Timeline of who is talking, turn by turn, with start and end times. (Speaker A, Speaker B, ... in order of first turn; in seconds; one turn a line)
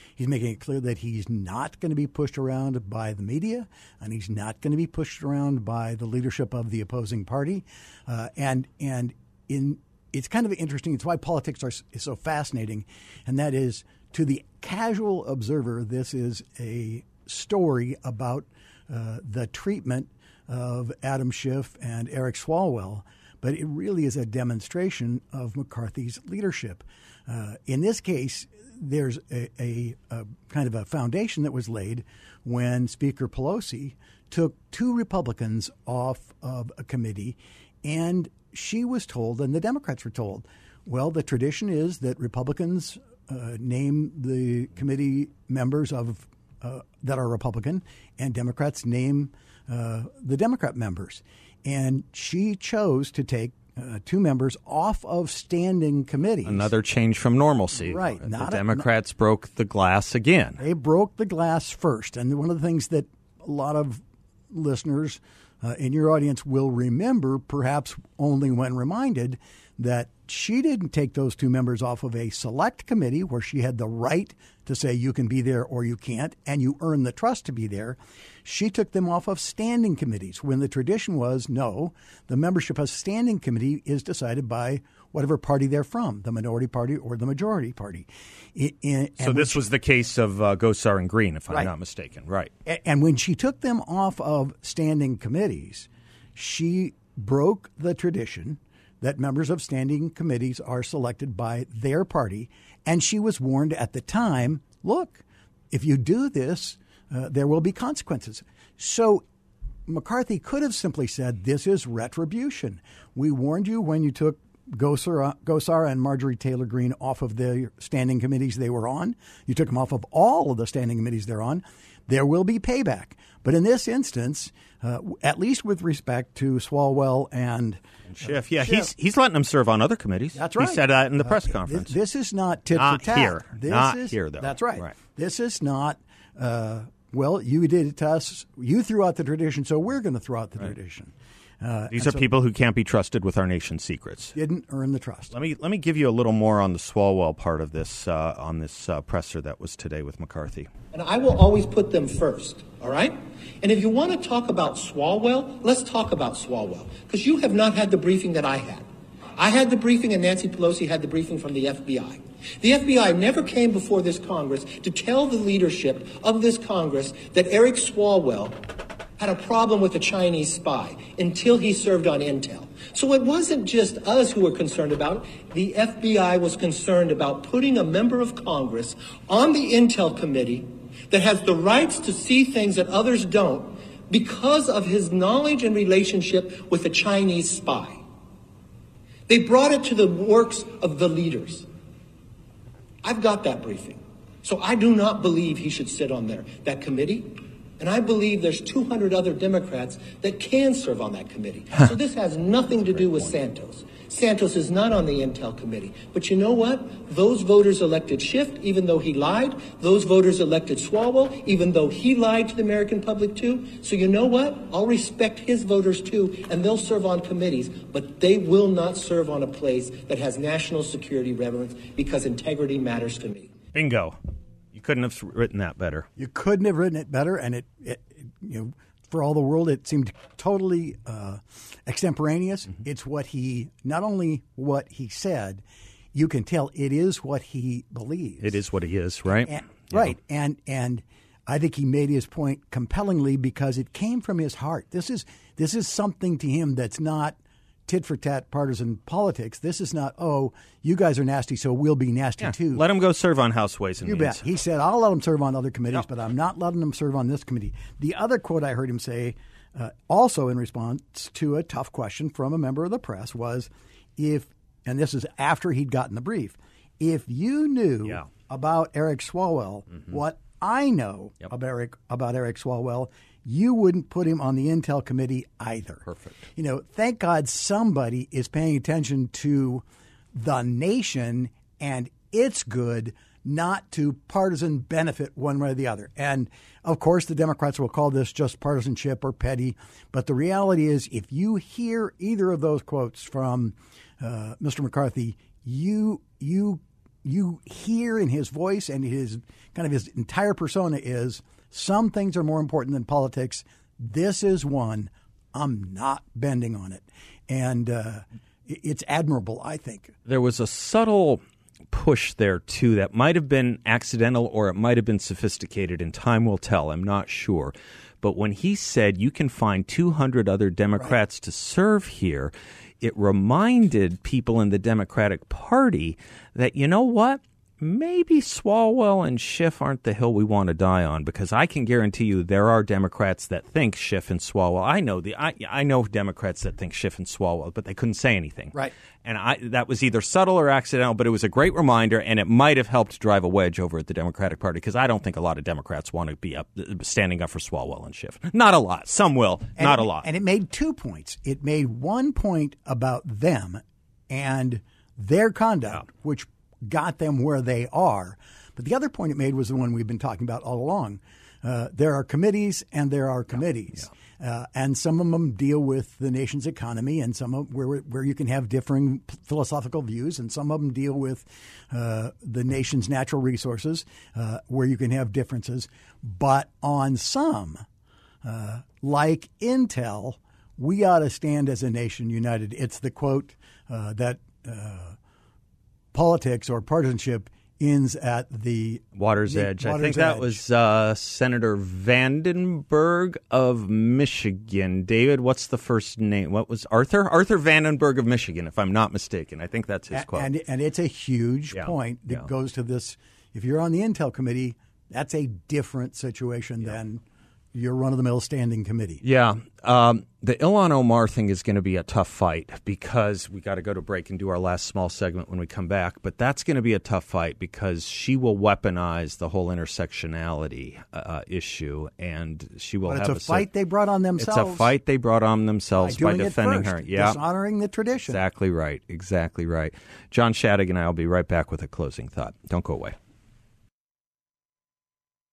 Speaker A: 0.2-56.7
Speaker B: 56.4-60.6
Speaker A: 57.8-58.9
Speaker A: 60.6-89.6
Speaker B: 89.2-92.5
Speaker A: 92.6-109.2
Speaker A: 109.9-128.9
Speaker B: 128.1-131.9
Speaker A: 130.3-142.2
Speaker B: 132.7-134.9
Speaker B: 141.9-144.3
Speaker A: 144.3-145.3
Speaker B: 145.3-150.7
Speaker C: 150.9-158.8
Speaker C: 159.3-168.6
Speaker C: 169.2-188.0
Speaker C: 189.3-191.7
Speaker C: 193.0-223.5
Speaker B: 223.7-224.2
Speaker B: 224.7-226.1
Speaker A: 226.2-235.6
Speaker A: 236.1-238.6
Speaker B: 238.4-240.1
Speaker A: 239.4-252.8
Speaker B: 252.4-254.4
Speaker A: 254.0-310.1
Speaker B: 276.1-276.4
Speaker B: 310.2-350.3
Speaker A: 349.8-377.8
Speaker A: 378.4-385.2
Speaker A: 386.1-390.6
Speaker B: 389.1-400.5
Speaker A: 400.1-407.2
Speaker B: 401.7-402.5
Speaker A: 407.7-409.2
Speaker B: 409.2-423.7
Speaker A: 423.1-424.9
Speaker B: 424.4-427.4
Speaker A: 426.0-428.4
Speaker B: 428.3-433.1